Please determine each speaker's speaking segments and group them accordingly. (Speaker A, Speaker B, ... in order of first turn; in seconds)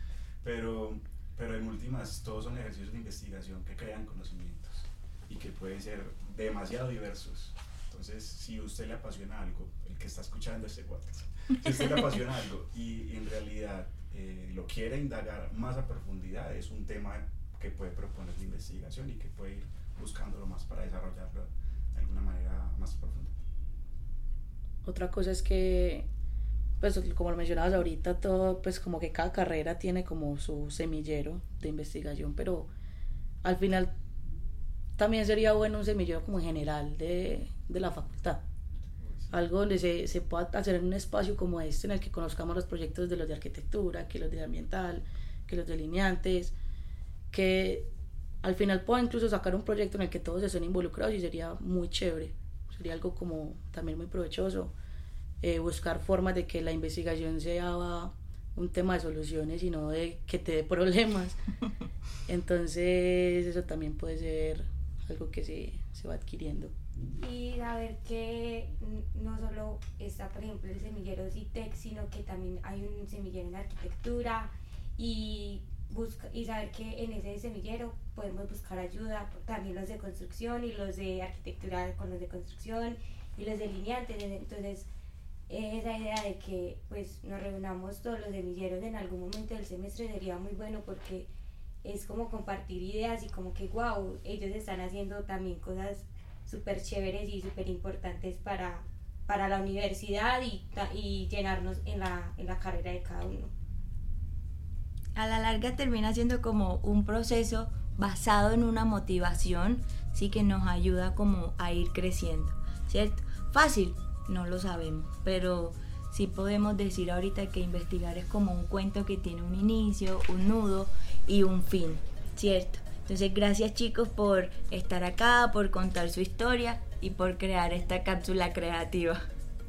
Speaker A: 0.4-23.3, 39.0-39.3
Speaker B: 24.8-26.1, 26.8-32.7, 33.4-33.9, 35.0-38.4, 39.3-46.5, 47.3-47.9, 48.4-54.7, 55.4-61.4, 62.3-66.7
Speaker C: 67.2-84.9, 85.5-91.3, 91.8-103.5
Speaker D: 105.1-129.2